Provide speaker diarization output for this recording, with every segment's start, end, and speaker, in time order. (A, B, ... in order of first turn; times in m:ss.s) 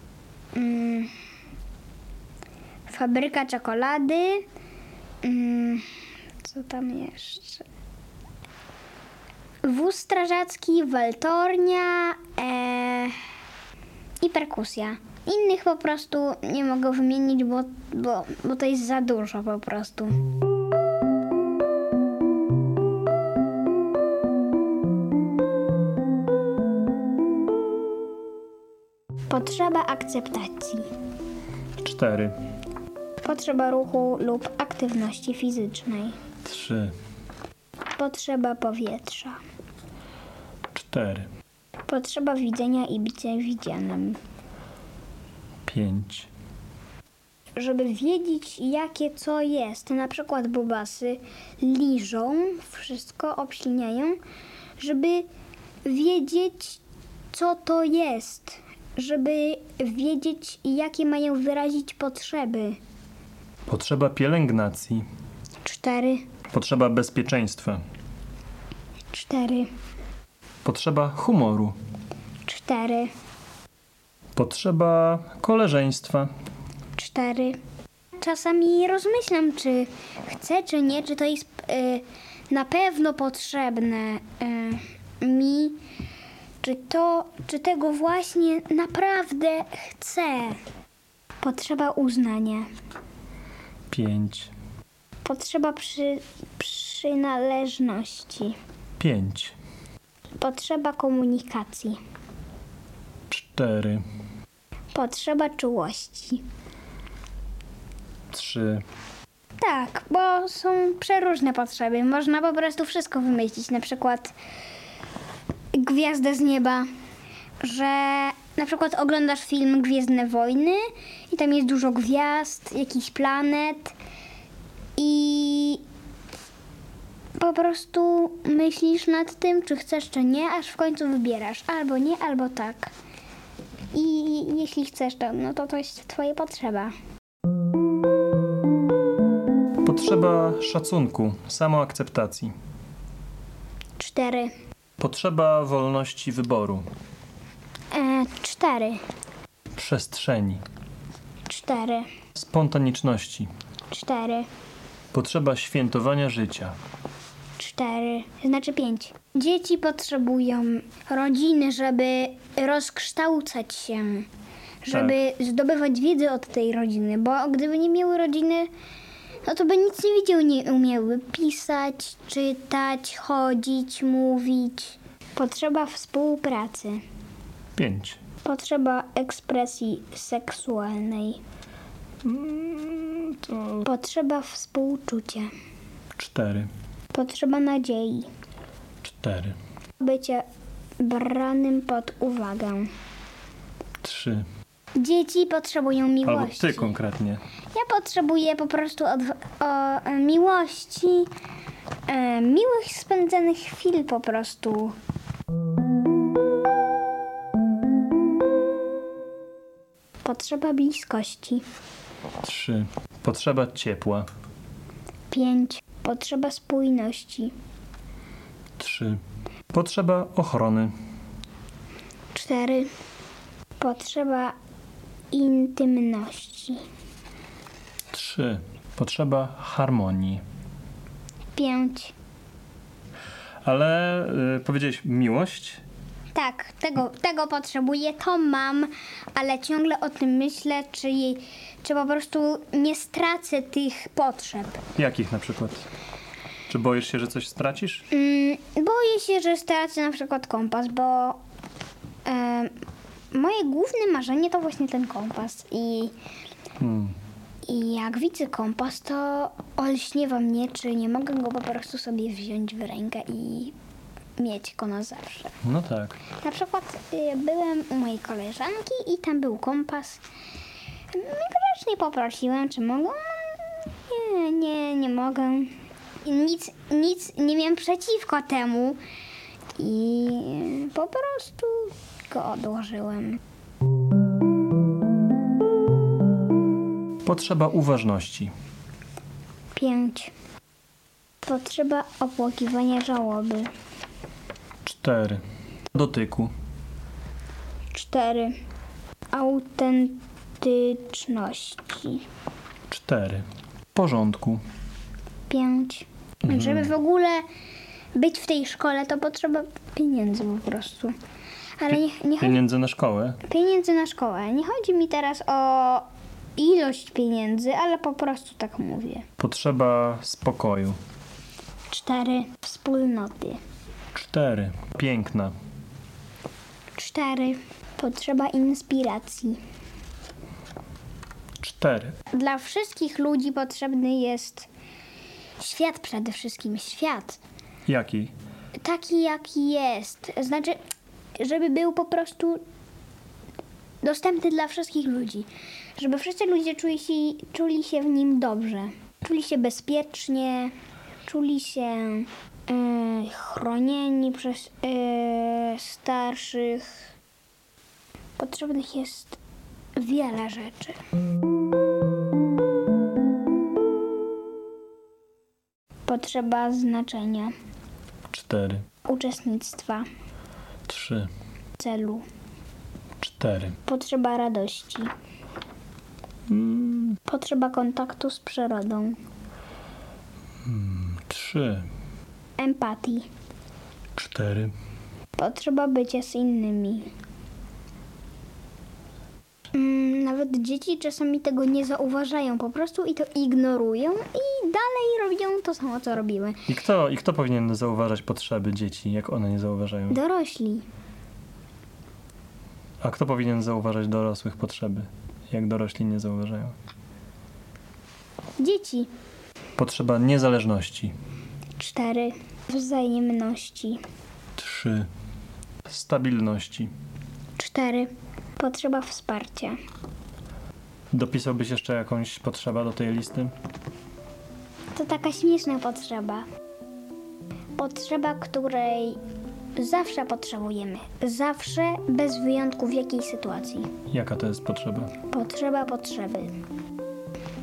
0:00.6-0:01.1 A
0:02.9-0:04.4 A
0:05.2-0:05.8 A
0:06.4-0:07.6 A
0:09.6-0:13.2 A
0:14.2-0:20.2 A
0:29.3-0:30.9 A
0:31.8-0:32.4 B
0:33.2-0:36.2 A
0:36.4-0:37.0 B
0:38.0-0:39.4 A
0:40.7-0:41.3 B
0:41.9-0:44.2 A
0:45.6-0:46.3 B
0:47.6-0:54.2 A
0:54.8-0:55.3 A
0:55.8-0:56.8 A
0:57.3-1:02.8 A
1:03.7-1:05.0 B
1:05.6-1:06.3 A
1:06.5-1:07.8 B
1:09.1-1:09.7 A
1:10.6-1:11.8 B
1:12.4-1:13.1 A
1:14.4-1:16.3 B
1:17.0-1:17.6 A
1:18.2-1:25.8 A
1:26.6-1:30.6 A
1:31.4-1:32.7 A
1:33.9-1:34.5 B
1:35.2-1:38.6 A
1:39.0-1:39.6 B
1:40.4-1:42.0 A
1:43.3-1:44.0 B
1:44.9-1:46.4 A
1:48.3-1:48.8 B
1:49.6-1:54.4 A
1:55.7-1:56.9 A
1:57.6-2:03.9 A
2:05.0-2:05.8 A
2:07.4-2:12.9 A
2:13.9-2:16.9 A
2:19.8-2:22.5 B
2:24.0-2:24.5 A
2:25.0-2:26.9 B
2:27.9-2:29.0 A
2:29.8-2:30.6 B
2:31.5-2:32.1 A
2:32.3-2:33.5 B
2:33.9-2:34.5 A
2:35.1-2:36.8 B
2:37.6-2:44.3 A
2:44.8-2:48.7 A
2:44.9-2:45.2 B
2:49.4-2:57.0 A
2:57.8-2:58.2 B
2:58.4-3:01.4 A
3:02.2-3:03.9 B
3:03.8-3:05.5 A
3:06.2-3:06.7 B
3:07.1-3:08.3 A
3:09.0-3:09.6 B
3:10.0-3:10.4 A
3:11.0-3:12.9 A
3:14.0-3:14.5 B
3:15.0-3:17.0 A
3:16.2-3:17.4 B
3:17.7-3:21.3 A
3:22.1-3:25.0 A
3:30.2-3:31.6 A
3:32.4-3:34.3 B
3:35.3-3:37.5 A
3:38.8-3:39.2 B
3:39.7-3:40.9 B
3:42.3-3:42.9 A
3:43.8-3:44.6 A
3:45.3-3:46.8 A
3:48.1-3:50.4 B
3:51.6-3:52.1 A
3:53.6-3:55.8 B
3:56.3-4:04.8 A
4:05.0-4:05.9 B
4:06.7-4:08.1 B
4:08.1-4:11.4 A
4:12.2-4:12.7 A
4:13.3-4:16.1 A
4:16.8-4:17.2 B
4:17.6-4:23.8 A
4:24.4-4:25.6 A
4:25.6-4:26.2 B
4:26.3-4:30.2 A
4:31.1-4:35.7 A
4:36.2-4:39.0 A
4:39.8-4:43.4 A
4:47.2-4:48.5 B
4:49.7-4:50.3 A
4:51.4-4:53.7 A
4:54.8-4:55.4 B
4:55.9-4:56.5 B
4:57.9-4:58.6 A
4:59.3-5:02.2 A
5:02.9-5:04.6 B
5:05.5-5:07.4 A
5:06.4-5:06.9 B
5:08.2-5:11.1 A
5:11.8-5:12.6 A
5:11.9-5:13.4 B
5:13.4-5:16.1 A
5:16.6-5:19.2 A
5:19.4-5:21.0 B
5:21.9-5:23.6 A
5:24.1-5:25.5 B
5:27.0-5:29.6 A
5:31.6-5:32.2 B
5:32.3-5:34.7 A
5:35.6-5:37.4 A
5:37.9-5:38.3 B
5:38.8-5:40.8 A
5:41.4-5:42.6 A
5:44.0-5:50.7 A
5:51.2-5:57.1 A
5:58.4-5:59.4 A
6:00.0-6:01.0 A
6:06.1-6:07.5 A
6:08.3-6:08.8 B
6:09.0-6:10.1 A
6:10.9-6:11.3 B
6:11.8-6:12.2 A
6:13.2-6:13.8 B
6:13.9-6:15.1 A
6:16.5-6:17.2 B
6:17.2-6:19.2 A
6:20.6-6:21.9 B
6:22.6-6:23.3 A
6:24.2-6:24.7 B
6:25.4-6:27.1 A
6:29.7-6:36.6 A
6:36.7-6:40.2 B
6:40.1-6:40.9 A
6:43.0-6:46.8 B
6:48.6-6:49.1 A
6:49.8-6:51.1 B
6:51.8-6:54.0 A
6:54.6-6:55.1 B
6:55.8-6:56.9 B
6:57.6-6:59.8 A
7:01.1-7:03.5 B
7:04.9-7:06.4 A
7:07.8-7:09.2 A
7:09.8-7:13.9 A
7:14.1-7:15.2 B
7:15.2-7:16.5 A